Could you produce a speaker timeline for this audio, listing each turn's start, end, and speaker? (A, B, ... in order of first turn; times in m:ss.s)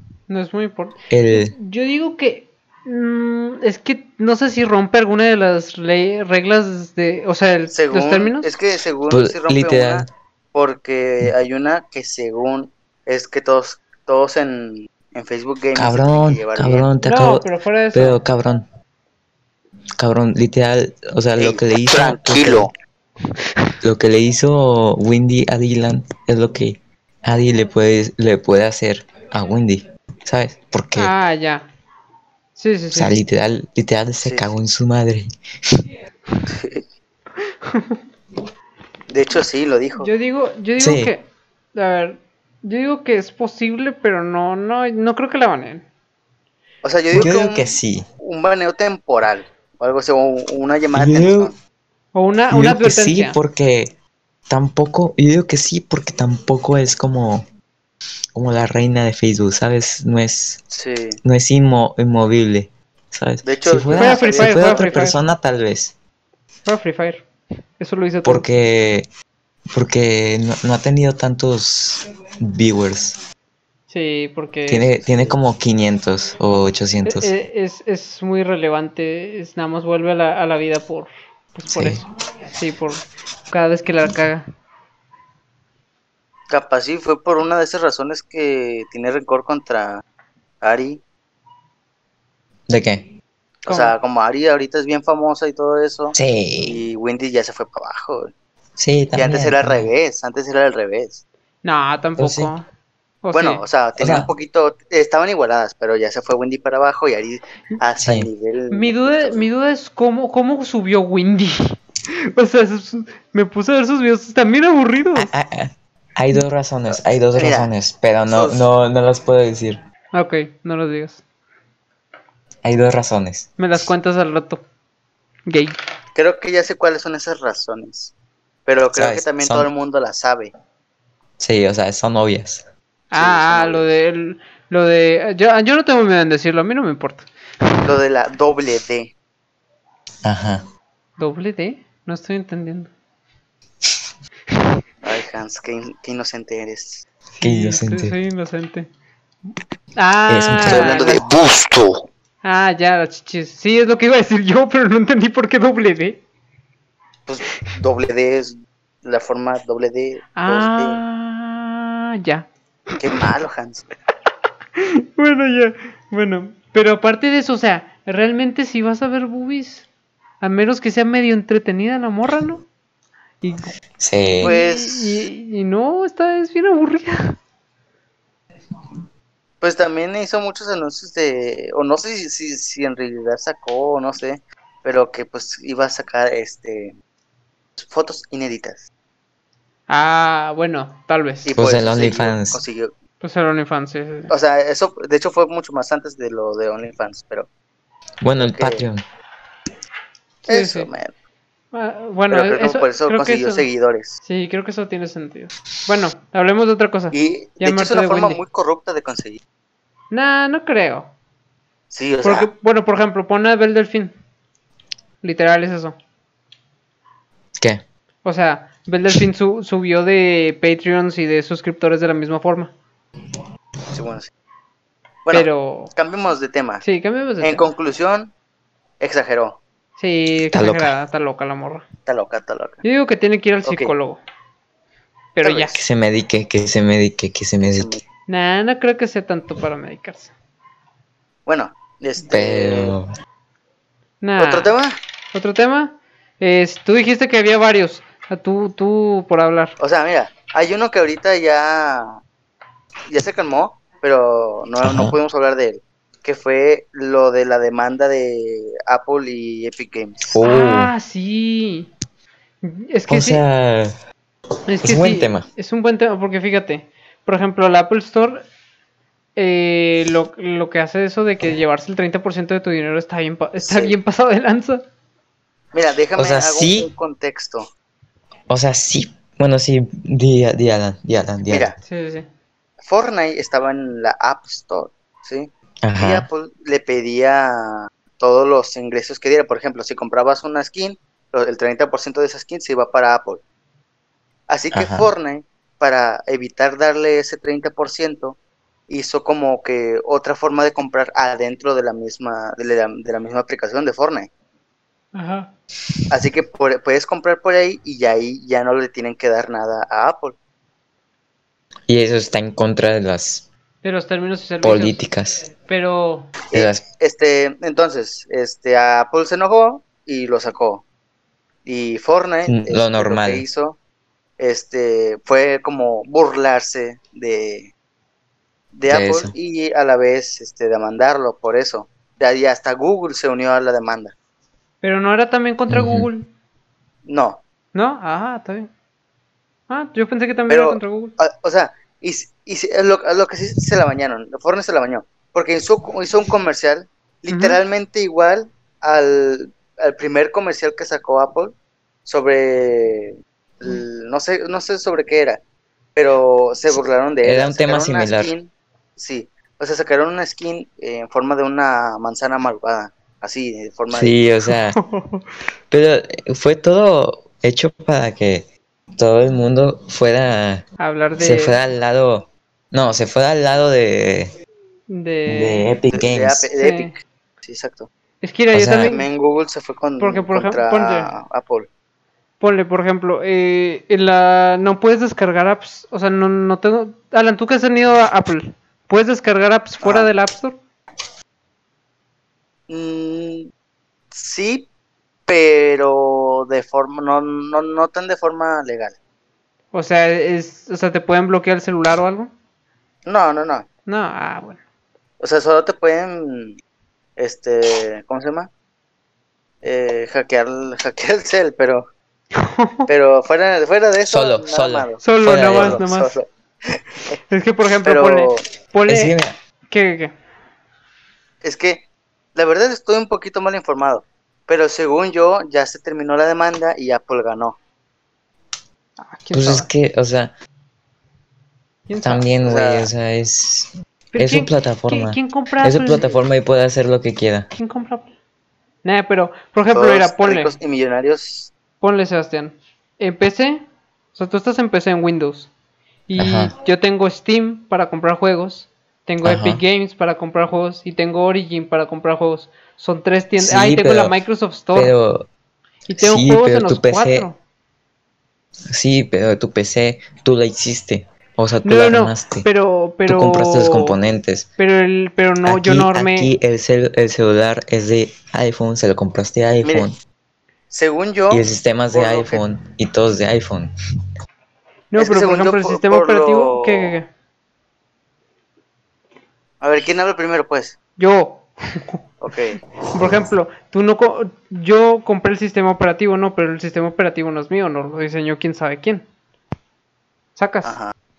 0:00.3-0:08.5 A
0:01.1-0:01.6 B
0:07.7-0:16.9 C
0:09.1-0:10.1 B
0:15.8-0:18.7 B
0:17.0-0:18.2 A
0:20.0-0:22.7 B
0:21.4-0:22.7 C
0:23.8-0:31.1 B
0:31.0-0:31.7 A
0:32.6-0:33.2 A
0:32.9-0:35.3 B
0:34.2-0:34.5 C
0:36.5-0:36.8 C
0:37.6-0:38.0 A
0:39.1-0:40.1 C
0:40.0-0:45.8 A
0:40.8-0:41.1 B
0:46.8-0:51.6 C
0:47.1-0:48.1 B
0:50.9-0:51.5 B
0:52.1-0:53.4 A
0:52.5-0:54.0 B
0:54.5-0:57.5 B
0:58.4-1:00.6 B
1:00.7-1:01.2 C
1:01.2-1:06.0 B
1:03.4-1:04.9 C
1:04.0-1:05.2 A
1:06.7-1:07.3 A
1:07.8-1:08.4 A
1:08.2-1:09.1 B
1:09.7-1:13.2 B
1:13.9-1:15.0 A
1:14.7-1:17.3 B
1:17.0-1:24.4 A
1:21.7-1:22.0 B
1:26.5-1:30.0 C
1:30.6-1:31.0 C
1:32.7-1:33.1 B
1:33.7-1:38.3 C
1:33.7-1:33.9 A
1:36.1-1:36.8 B
1:38.8-1:39.9 B
1:39.2-1:41.2 C
1:41.6-1:42.7 A
1:42.2-1:42.5 B
1:43.2-1:43.6 A
1:43.3-1:49.5 C
1:44.0-1:44.3 B
1:48.0-1:48.3 B
1:48.7-1:51.8 A
1:52.3-1:55.3 A
1:55.2-1:59.8 B
1:56.9-1:57.7 C
1:58.3-1:58.6 C
2:00.1-2:01.2 A
2:02.6-2:03.6 B
2:03.6-2:04.6 A
2:05.5-2:05.8 A
2:06.2-2:08.1 C
2:08.7-2:10.5 C
2:08.9-2:09.7 B
2:11.4-2:12.7 B
2:13.1-2:17.7 A
2:13.1-2:13.9 C
2:17.8-2:19.1 C
2:20.2-2:20.6 B
2:21.2-2:22.9 A
2:25.0-2:27.1 C
2:27.3-2:28.9 A
2:27.4-2:28.2 B
2:30.0-2:31.2 A
2:30.3-2:31.4 B
2:30.6-2:31.9 C
2:32.4-2:36.2 A
2:37.3-2:41.0 C
2:40.4-2:42.5 A
2:43.0-2:43.8 C
2:44.8-2:49.8 A
2:50.4-2:52.6 A
2:53.4-2:53.7 A
2:54.0-2:54.5 B
2:54.4-2:55.3 C
2:54.4-2:57.4 A
2:59.6-3:07.0 C
3:07.8-3:08.9 C
3:09.9-3:11.5 A
3:11.5-3:12.9 C
3:11.5-3:12.6 B
3:13.2-3:14.3 A
3:14.3-3:17.5 C
3:18.2-3:19.0 B
3:18.4-3:18.9 C
3:20.5-3:20.9 A
3:20.5-3:21.1 C
3:21.7-3:23.7 A
3:22.3-3:24.2 C
3:24.2-3:28.4 A
3:27.1-3:29.4 C
3:30.1-3:31.1 A
3:31.9-3:32.5 C
3:32.2-3:34.1 A
3:35.2-3:36.0 A
3:37.6-3:37.8 B
3:38.2-3:42.7 A
3:43.9-3:44.3 C
3:45.3-3:46.8 C
3:45.3-3:45.9 A
3:46.8-3:47.6 A
3:47.4-3:48.3 C
3:49.0-3:49.6 C
3:50.0-3:51.8 A
3:50.5-3:51.0 B
3:52.1-3:52.8 C
3:52.8-3:54.2 A
3:53.6-3:53.9 C
3:55.4-3:55.8 A
3:55.4-3:55.8 C
3:55.7-3:57.9 B
3:57.6-3:58.0 C
3:58.3-4:00.3 A
4:01.5-4:03.0 C
4:02.3-4:03.1 B
4:04.2-4:04.7 A
4:04.4-4:05.0 C
4:05.3-4:09.8 A
4:09.8-4:12.2 C
4:13.1-4:20.3 C
4:14.8-4:15.2 B
4:20.3-4:20.9 B
4:20.4-4:21.9 A
4:22.6-4:23.4 A
4:23.1-4:23.9 B
4:24.7-4:28.4 A
4:24.8-4:25.5 B
4:29.4-4:34.8 A
4:33.6-4:34.0 C
4:35.7-4:37.7 C
4:36.2-4:36.9 B
4:38.5-4:41.8 B
4:41.5-4:41.8 C
4:41.9-4:42.3 A
4:42.8-4:53.4 C
4:45.8-4:46.3 B
4:54.5-4:58.4 C
4:54.7-4:55.1 B
4:58.9-5:04.3 C
5:05.2-5:05.5 A
5:06.1-5:10.4 C
5:11.9-5:13.5 B
5:13.8-5:15.0 A
5:14.6-5:15.4 B
5:15.7-5:16.3 A
5:16.5-5:20.8 C
5:16.5-5:16.8 B
5:21.6-5:23.8 C
5:22.5-5:23.4 B
5:24.4-5:27.7 C
5:28.7-5:34.1 C
5:28.9-5:29.3 B
5:34.8-5:36.3 A
5:35.7-5:36.1 B
5:37.1-5:37.4 C
5:37.7-5:38.7 A
5:39.7-5:41.1 A
5:40.5-5:51.6 C
5:47.3-5:47.6 A
5:52.1-5:55.4 C
5:56.0-6:04.2 C
5:56.7-5:58.3 B
6:03.9-6:04.8 B
6:04.8-6:05.3 A
6:05.7-6:10.7 B
6:10.8-6:11.6 A
6:11.2-6:14.3 B
6:14.9-6:15.7 A
6:15.3-6:16.5 B
6:15.9-6:17.9 C
6:16.6-6:16.9 A
6:18.2-6:19.1 A
6:18.5-6:18.9 B
6:18.8-6:21.7 C
6:20.0-6:21.1 A
6:22.4-6:30.6 A
6:29.8-6:30.1 C
6:32.7-6:33.5 C
6:34.1-6:34.7 C
6:35.3-6:39.0 C
6:39.7-6:42.3 A
6:43.1-6:43.7 C
6:43.9-6:44.6 A
6:45.2-6:46.6 C
6:47.2-6:48.5 C
6:49.6-6:51.9 C
6:52.4-6:52.9 A
6:52.9-6:57.2 C
6:54.1-6:55.8 B
6:55.0-6:56.2 A
6:57.3-6:59.1 A
6:57.8-6:58.4 C
6:58.9-6:59.4 B
6:59.7-7:00.1 A
7:01.4-7:07.6 C
7:09.0-7:09.7 A
7:09.3-7:10.3 B
7:11.9-7:12.3 A
7:12.0-7:17.5 B
7:12.4-7:12.9 C
7:14.1-7:16.2 A
7:17.6-7:18.1 A
7:18.8-7:20.5 A
7:19.7-7:21.5 C
7:21.8-7:23.6 A
7:24.2-7:25.5 A
7:26.1-7:35.0 A
7:26.2-7:26.5 B
7:29.2-7:29.6 B
7:33.4-7:34.2 B
7:34.7-7:35.3 B
7:35.9-7:37.4 A
7:36.0-7:37.3 B
7:38.7-7:42.5 B
7:41.6-7:44.0 A
7:43.1-7:44.5 B
7:44.6-7:46.3 A
7:45.4-7:50.0 B
7:50.7-7:52.4 C
7:51.3-7:53.7 B
7:54.9-7:57.1 A
7:55.0-7:57.0 C
7:59.6-8:00.8 C
8:01.0-8:02.0 A
8:02.2-8:02.6 C
8:02.9-8:09.0 A
8:10.4-8:10.8 A
8:10.6-8:10.9 C